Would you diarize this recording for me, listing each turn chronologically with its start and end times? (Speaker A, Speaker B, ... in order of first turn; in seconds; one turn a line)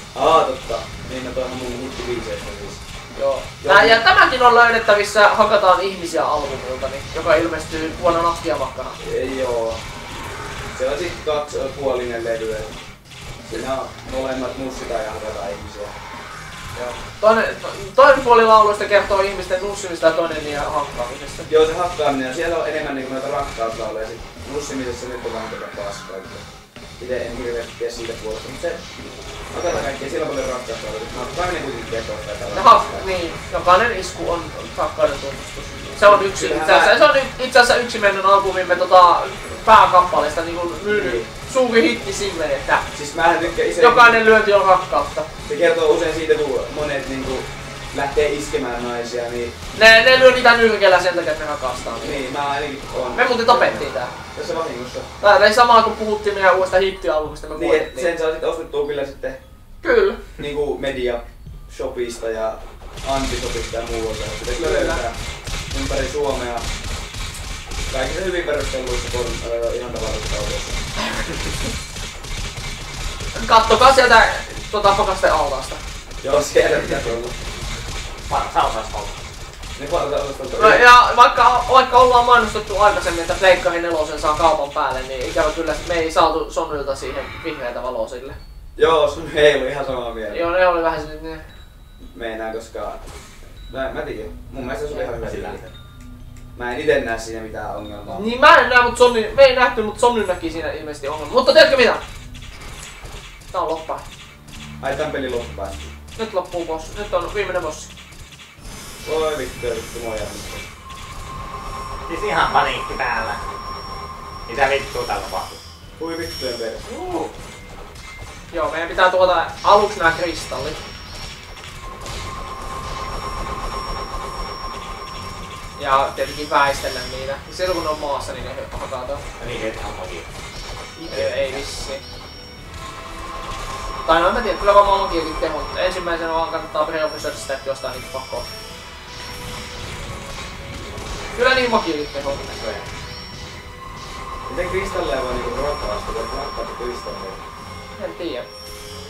Speaker A: 0.1-2.8
Speaker B: 3.1-9.0
Speaker A: 3.6-4.0
Speaker A: 9.0-9.8
Speaker A: 10.7-12.7
Speaker A: 13.4-15.9
Speaker B: 16.8-21.5
Speaker A: 21.4-26.4
Speaker A: 27.0-28.8
Speaker A: 29.5-33.0
Speaker B: 32.5-42.9
Speaker A: 36.0-37.0
Speaker A: 40.9-41.3
Speaker A: 42.9-44.2
Speaker B: 43.8-45.3
Speaker A: 45.4-49.5
Speaker B: 49.8-52.2
Speaker A: 52.0-55.1
Speaker B: 53.1-54.1
Speaker B: 55.2-58.1
Speaker A: 57.5-59.4
Speaker B: 59.8-60.2
Speaker A: 60.4-65.2
Speaker B: 64.5-65.0
Speaker A: 65.7-66.7
Speaker A: 67.9-70.8
Speaker B: 73.3-75.8
Speaker A: 76.2-77.3
Speaker C: 78.3-79.1
Speaker A: 79.8-80.9
Speaker B: 80.5-88.4
Speaker A: 88.8-90.5
Speaker B: 90.3-91.4
Speaker A: 92.1-93.0
Speaker A: 93.7-95.7
Speaker C: 95.2-95.6
Speaker A: 96.5-98.2
Speaker B: 98.1-102.0
Speaker B: 103.5-104.0
Speaker A: 104.8-105.9
Speaker B: 106.2-107.9
Speaker A: 109.0-110.6
Speaker C: 112.1-113.4
Speaker C: 114.5-115.6
Speaker A: 116.0-116.8
Speaker B: 116.9-117.3
Speaker B: 118.5-120.8
Speaker B: 125.8-129.2
Speaker C: 129.4-130.3
Speaker B: 131.0-132.0
Speaker C: 131.0-131.6
Speaker B: 134.1-138.4
Speaker B: 141.3-142.4
Speaker C: 142.4-142.8
Speaker A: 144.5-147.4
Speaker B: 148.0-148.4